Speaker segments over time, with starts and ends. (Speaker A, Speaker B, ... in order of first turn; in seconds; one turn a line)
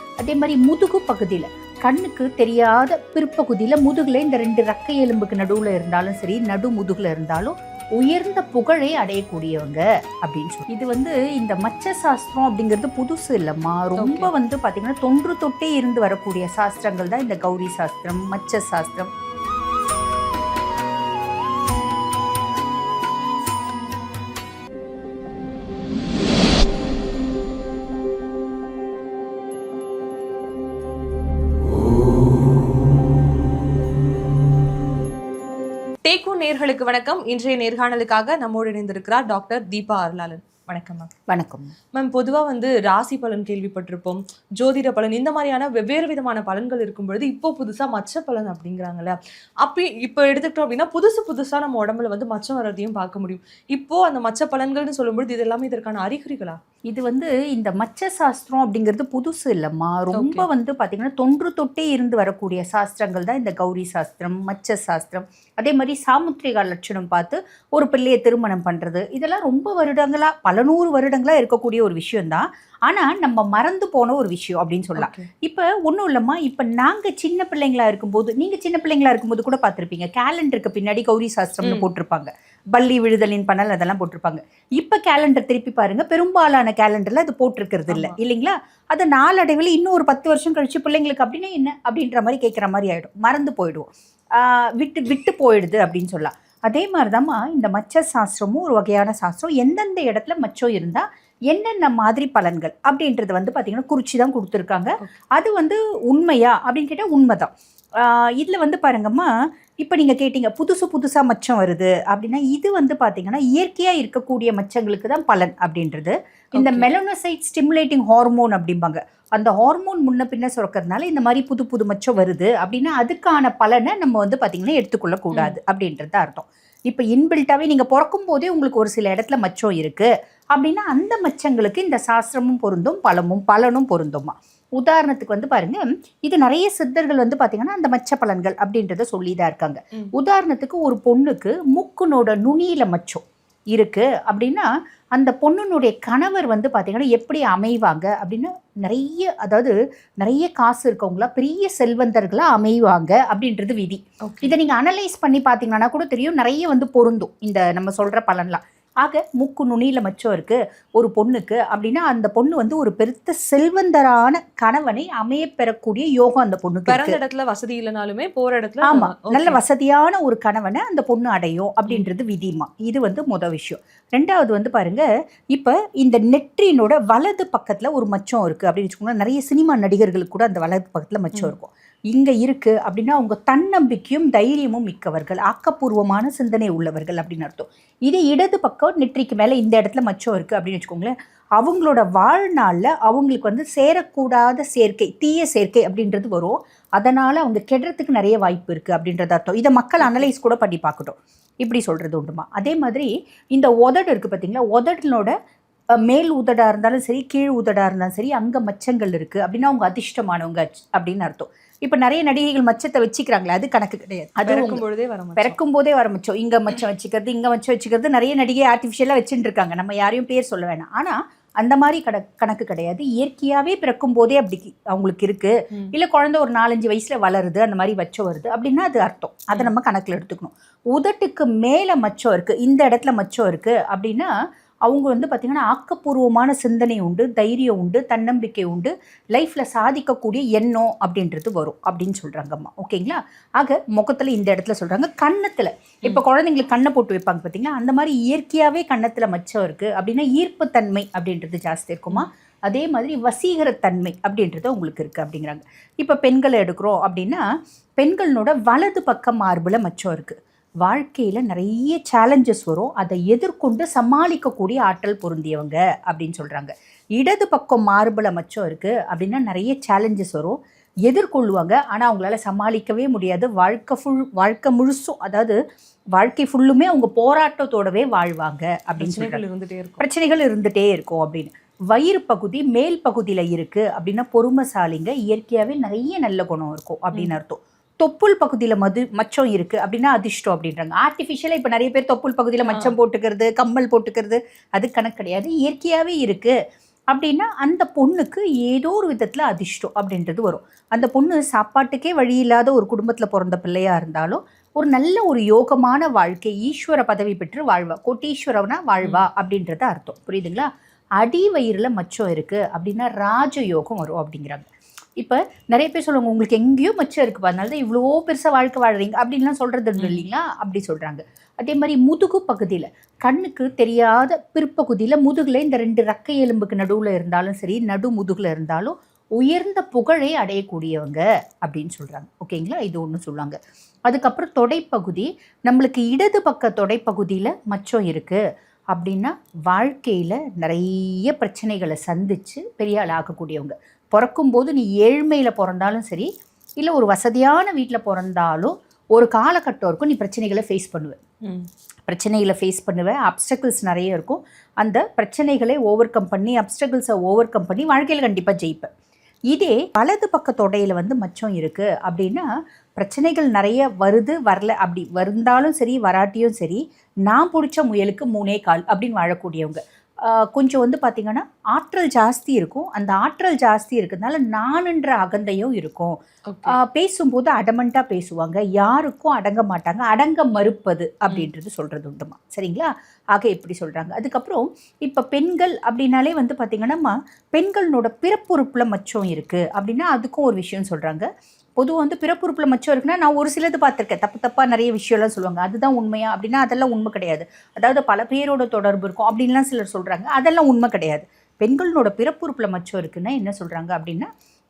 Speaker A: 0.2-19.1
Speaker B: 14.0-14.3
Speaker B: 36.0-41.1
Speaker A: 41.3-41.7
Speaker B: 42.0-56.6
Speaker A: 56.9-109.3
Speaker B: 60.1-60.5
Speaker B: 75.0-75.3
Speaker B: 87.9-88.2
Speaker A: 109.8-167.2
Speaker B: 116.6-116.9
Speaker B: 154.2-154.5
Speaker B: 166.9-169.6
Speaker A: 168.8-205.3
Speaker B: 200.0-200.3
Speaker A: 206.1-214.8
Speaker B: 214.4-215.6
Speaker A: 215.4-234.3
Speaker A: 234.9-257.4
Speaker A: 258.0-275.6
Speaker A: 276.1-279.4
Speaker B: 279.0-280.0
Speaker A: 280.0-296.5
Speaker B: 292.7-292.9
Speaker A: 297.1-310.7
Speaker A: 311.2-314.7
Speaker A: 315.2-338.4
Speaker B: 320.0-320.2
Speaker A: 338.9-346.3
Speaker A: 346.8-351.2
Speaker A: 352.1-358.9
Speaker A: 359.5-362.5
Speaker A: 363.0-376.2
Speaker B: 376.5-376.8
Speaker A: 376.7-391.3
Speaker A: 391.8-404.3